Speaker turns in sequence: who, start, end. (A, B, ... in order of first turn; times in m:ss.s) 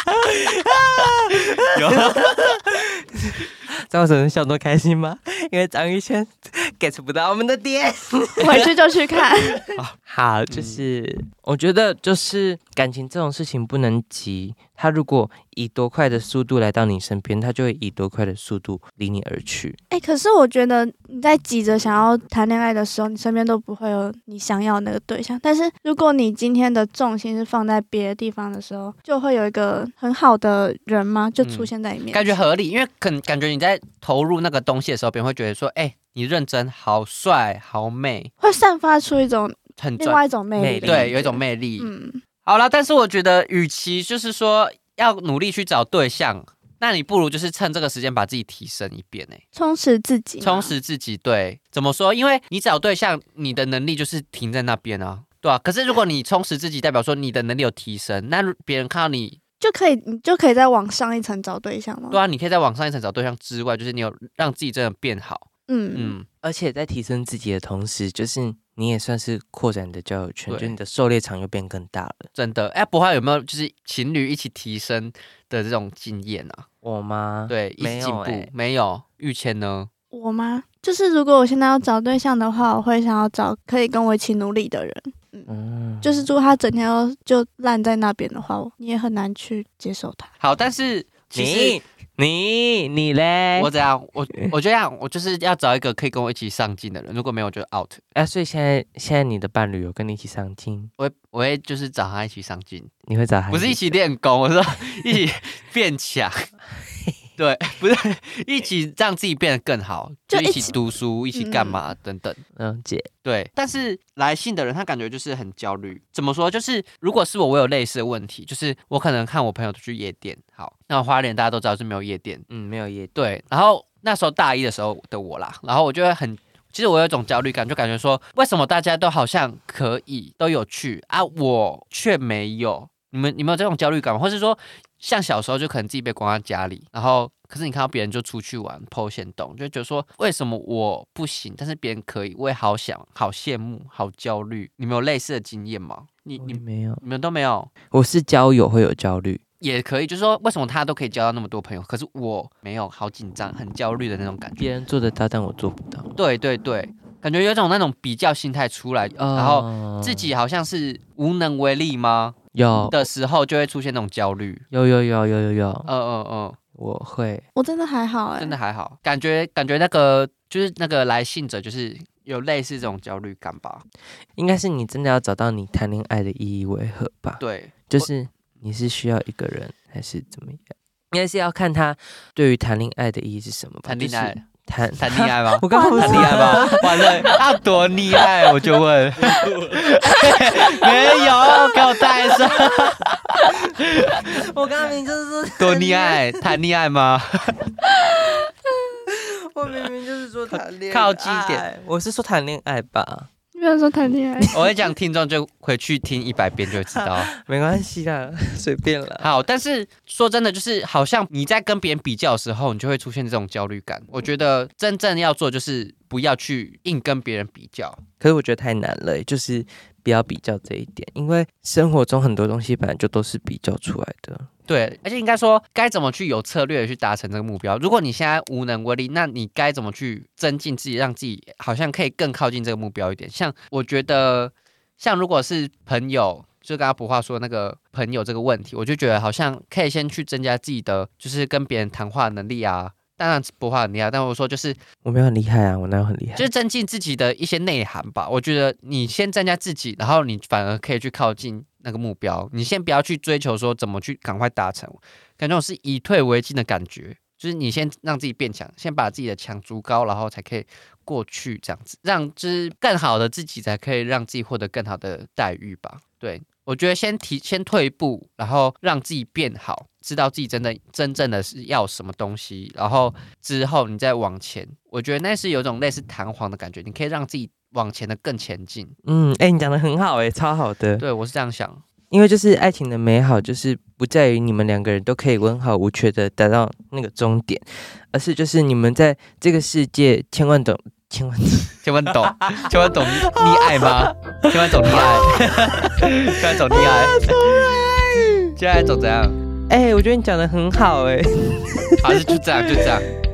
0:00.3-0:08.7 A
0:01.7-0:02.3 B
0:08.4-0:09.6 C
0:09.5-0:19.8 A
0:10.5-0:10.8 B
0:19.9-0:32.4 C
0:31.4-0:38.3 B
0:38.4-0:42.2 C
0:39.8-0:40.2 B
0:40.6-0:41.1 A
0:40.8-0:41.9 B
0:42.4-0:49.4 B
0:49.5-0:50.7 C
0:50.4-0:59.4 B
0:59.6-1:02.2 C
1:02.1-1:06.3 B
1:05.7-1:06.2 C
1:06.4-1:12.3 A
1:10.5-1:10.8 B
1:12.3-1:16.6 B
1:16.8-1:18.5 A
1:17.5-1:19.9 B
1:20.1-1:25.5 C
1:25.5-1:26.3 A
1:26.0-1:30.3 C
1:30.4-1:31.8 B
1:31.3-1:33.7 A
1:33.5-1:38.0 B
1:38.1-1:40.9 A
1:41.0-1:42.9 B
1:43.0-1:43.9 A
1:43.5-1:46.4 B
1:47.4-1:52.4 B
1:50.3-1:50.7 C
1:51.3-1:51.8 C
1:52.6-1:53.1 A
1:53.2-2:02.4 B
2:02.5-2:03.1 A
2:03.1-2:27.7 B
2:26.4-2:27.0 A
2:27.9-2:29.4 A
2:29.6-2:34.6 B
2:34.6-2:36.1 A
2:36.2-2:42.4 B
2:39.2-2:40.3 A
2:42.5-2:43.0 A
2:42.9-2:44.6 B
2:44.7-2:45.9 A
2:45.9-2:46.6 B
2:46.8-2:47.4 A
2:47.6-2:48.6 C
2:48.4-2:53.8 B
2:54.4-3:07.2 A
2:57.4-2:58.1 B
3:03.8-3:13.2 B
3:05.7-3:07.2 C
3:09.2-3:09.8 A
3:13.4-3:16.3 A
3:15.6-3:17.6 B
3:19.1-3:23.3 A
3:20.5-3:21.6 B
3:23.5-3:24.6 C
3:24.5-3:27.3 B
3:27.0-3:29.3 A
3:29.2-3:38.0 B
3:38.2-3:44.5 A
3:44.7-4:04.8 B
4:05.0-4:06.5 A
4:06.4-4:38.9 B
4:39.0-4:41.0 A
4:41.0-4:41.8 B
4:42.1-4:58.5 A
4:51.8-4:57.4 B
4:58.6-4:59.4 B
4:59.7-5:02.8 A
5:02.0-5:03.1 B